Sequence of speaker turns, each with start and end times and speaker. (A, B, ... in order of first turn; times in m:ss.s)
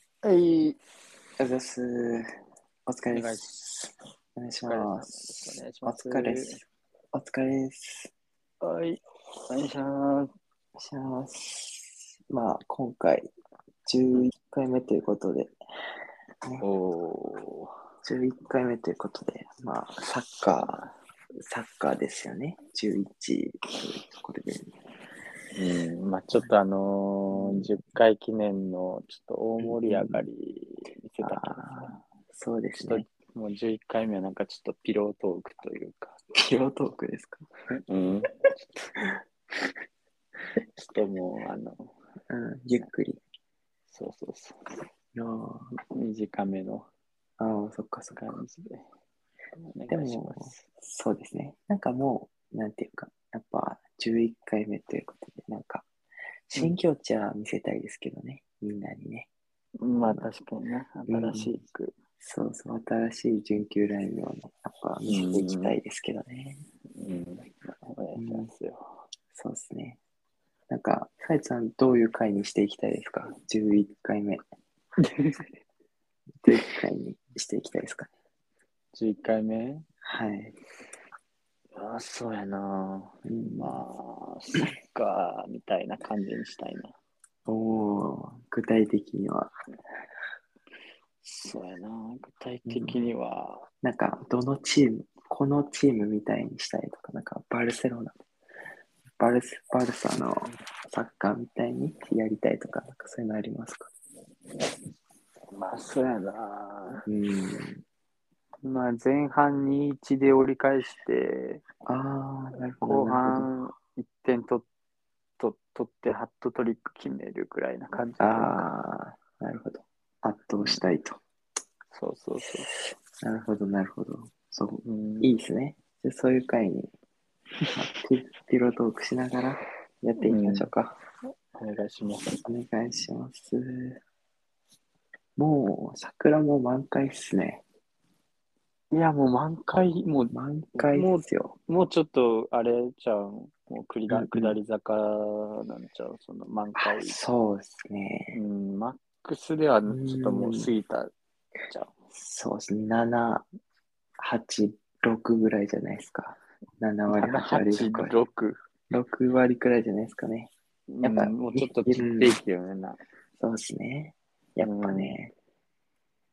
0:00.2-0:00.8 A
0:01.4-0:02.2 B
0:02.9-0:08.1 B
0:03.1-0:03.6 A
0:04.6-0:06.6 A
0:08.6-0:10.3 A
0:10.8-0:13.3 B
0:13.8-0:15.5 B
0:16.6-0:17.7 A
0:18.0-0:20.8 B
0:21.4-0:24.7 B
0:25.6-0:32.0 A
0:27.3-0:27.7 B
0:29.6-0:30.2 B
0:31.2-0:33.0 B
0:32.8-0:36.2 A
0:36.4-0:37.4 B
0:37.7-0:39.0 A
0:40.8-0:41.9 A
0:42.3-0:43.2 B
0:43.9-0:44.7 A
0:45.1-0:45.7 B
0:45.9-0:46.9 A
0:47.4-0:48.3 B
0:48.1-0:48.8 A
0:49.7-0:50.6 A
0:49.9-0:55.8 B
0:56.5-0:59.3 B
0:59.8-1:01.9 A
1:00.0-1:00.3 B
1:01.1-1:01.5 B
1:02.2-1:06.6 B
1:05.1-1:05.7 A
1:06.9-1:09.0 A
1:08.2-1:08.5 B
1:09.3-1:10.0 B
1:10.7-1:14.4 B
1:15.0-1:15.5 A
1:16.4-1:18.1 B
1:18.9-1:19.8 A
1:20.0-1:20.5 B
1:21.7-1:26.9 A
1:23.2-1:23.8 B
1:27.4-1:29.5 B
1:31.2-1:33.6 A
1:32.7-1:33.0 B
1:33.8-1:38.1 B
1:39.2-1:43.9 B
1:45.5-1:47.0 A
1:47.0-1:47.8 B
1:48.6-1:51.6 A
1:51.8-1:53.5 B
1:52.8-1:54.6 A
1:55.4-1:58.6 A
1:58.2-2:01.2 B
2:01.9-2:02.7 A
2:03.2-2:06.9 B
2:04.8-2:05.3 A
2:07.7-2:11.0 B
2:10.2-2:10.7 A
2:11.5-2:12.4 A
2:12.4-2:14.0 B
2:15.4-2:17.6 B
2:18.9-2:27.2 A
2:20.3-2:21.5 B
2:24.1-2:24.6 B
2:26.8-2:28.4 B
2:28.3-2:31.1 A
2:29.9-2:30.7 B
2:31.7-2:31.9 A
2:32.1-2:33.4 B
2:34.2-2:38.2 B
2:37.1-2:38.6 A
2:38.9-2:40.5 B
2:40.9-2:43.0 A
2:41.0-2:42.4 B
2:43.4-2:45.3 B
2:44.6-2:45.2 A